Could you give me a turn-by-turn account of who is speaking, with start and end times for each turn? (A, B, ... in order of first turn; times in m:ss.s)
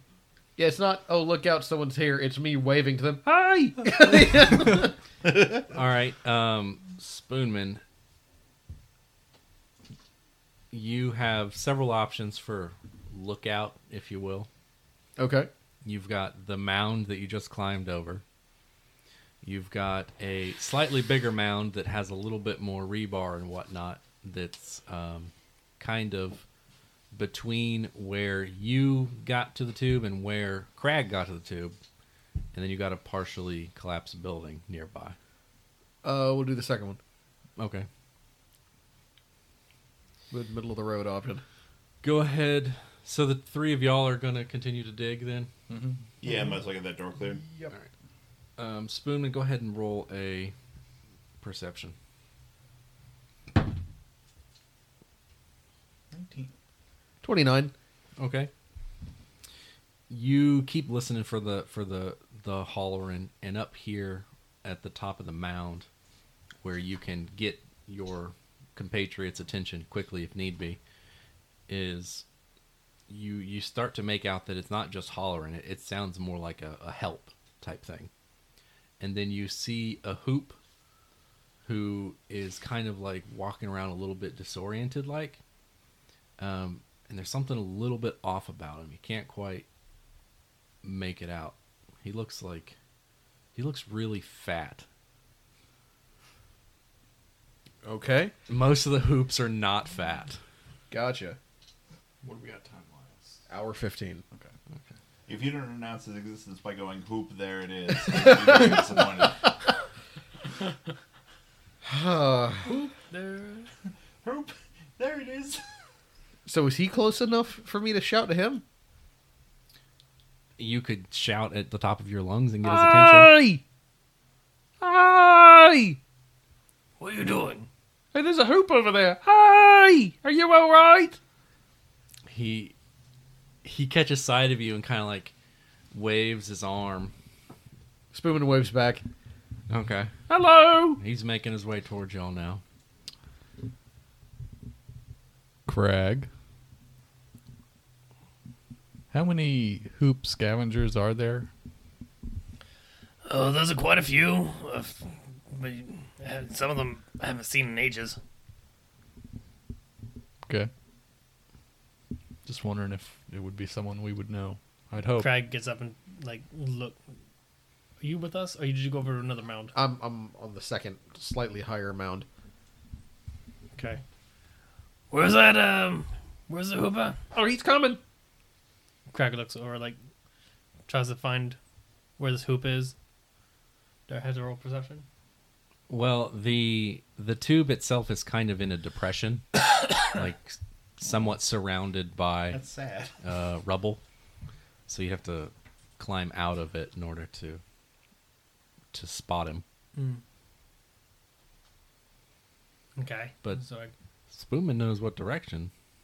0:00.6-0:04.9 A
0:05.2-0:05.6 B
0:05.7-0:07.8 C
0:10.7-0:14.5 C
0:15.2-0:15.5 A
0:15.8-0:18.2 C
0:19.4-0:26.4 C
0:27.1-0:31.8 C
0:32.5-0:35.2 C
0:36.0-0:37.0 A
0:37.6-0:37.9 C
0:40.3-0:41.4 A
0:42.0-0:45.5 C
0:45.7-0:46.0 D
0:46.2-0:47.4 B
0:48.6-0:50.5 C
0:51.4-0:51.9 C
0:56.1-0:56.5 D
0:57.2-0:57.7 A
0:58.2-0:58.5 C
1:00.1-1:05.9 C
1:06.6-1:10.8 C
1:11.7-1:12.2 C
1:13.1-1:18.1 C
1:19.0-1:20.6 C
1:21.6-1:25.4 C
1:26.4-1:29.6 C
1:30.8-1:32.8 C
1:33.5-1:34.8 C
1:37.8-1:38.3 A
1:38.5-1:40.4 C
1:40.9-1:41.4 A
1:42.2-1:43.4 D
1:43.5-1:44.2 A
1:45.3-1:49.4 B
1:48.0-1:48.8 A
1:51.8-1:52.7 A
1:52.6-1:53.7 E
1:54.2-1:55.6 B
1:56.4-1:58.6 A
2:00.6-2:03.3 C
2:02.6-2:03.6 A
2:04.8-2:06.0 A
2:07.0-2:07.7 E
2:08.1-2:11.2 A
2:12.3-2:12.7 C
2:13.6-2:15.3 C
2:15.9-2:17.1 C
2:18.1-2:19.0 A
2:19.7-2:20.2 C
2:20.3-2:21.0 A
2:21.0-2:22.6 C
2:25.7-2:26.3 D
2:29.1-2:31.5 D
2:33.2-2:38.2 E
2:42.4-2:45.4 D
2:45.2-2:47.0 E
2:48.0-2:49.7 E
2:49.7-2:52.3 A
2:53.8-2:54.0 E
2:55.1-2:57.2 E
2:57.3-2:58.0 A
2:59.1-3:00.0 E
3:00.9-3:01.6 E
3:02.2-3:02.9 E
3:04.1-3:05.0 E
3:05.9-3:09.4 C
3:10.0-3:12.6 C
3:12.5-3:13.1 B
3:13.2-3:14.0 C
3:14.9-3:17.6 C
3:18.9-3:19.6 C
3:19.9-3:20.2 E
3:23.0-3:23.9 E
3:24.3-3:25.7 C